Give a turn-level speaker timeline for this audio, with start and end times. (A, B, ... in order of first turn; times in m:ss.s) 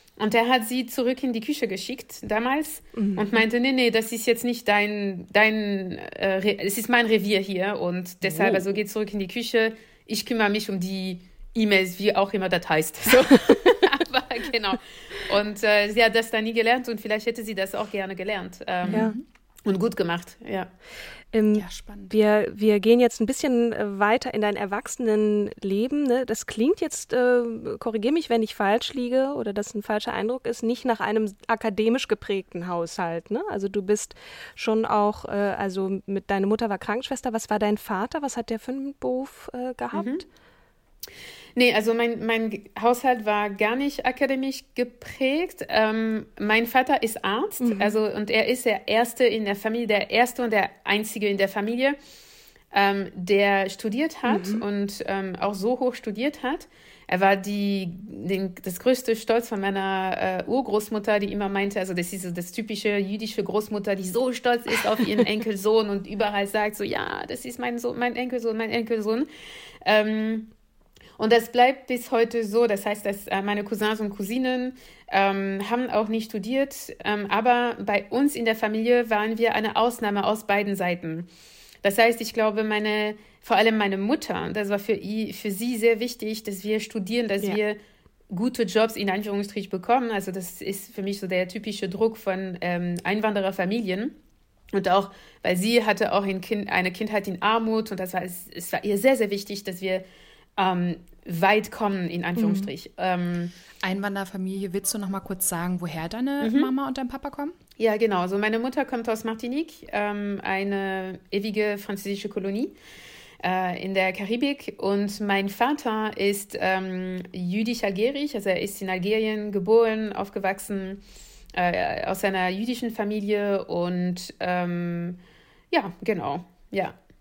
0:00.2-0:19.1 A
0:03.0-0:03.4 B
0:08.2-0:08.7 B
0:18.8-0:19.2 C
0:18.9-0:19.1 B
0:19.6-0:20.7 A
0:21.3-0:40.2 B
0:21.5-0:22.2 C
0:39.9-0:40.2 A
0:41.6-0:52.0 A
0:47.6-0:48.0 B
0:52.7-1:09.3 A
0:54.3-0:54.6 B
1:09.8-1:10.5 A
1:11.2-1:21.3 A
1:21.8-1:27.8 A
1:28.3-1:34.2 A
1:34.7-1:40.0 A
1:40.6-1:43.5 A
1:42.4-1:42.7 B
1:43.8-1:47.6 C
1:46.4-1:46.7 A
1:47.8-1:52.8 A
1:53.4-2:01.0 A
2:01.5-2:05.2 A
2:05.7-2:07.0 A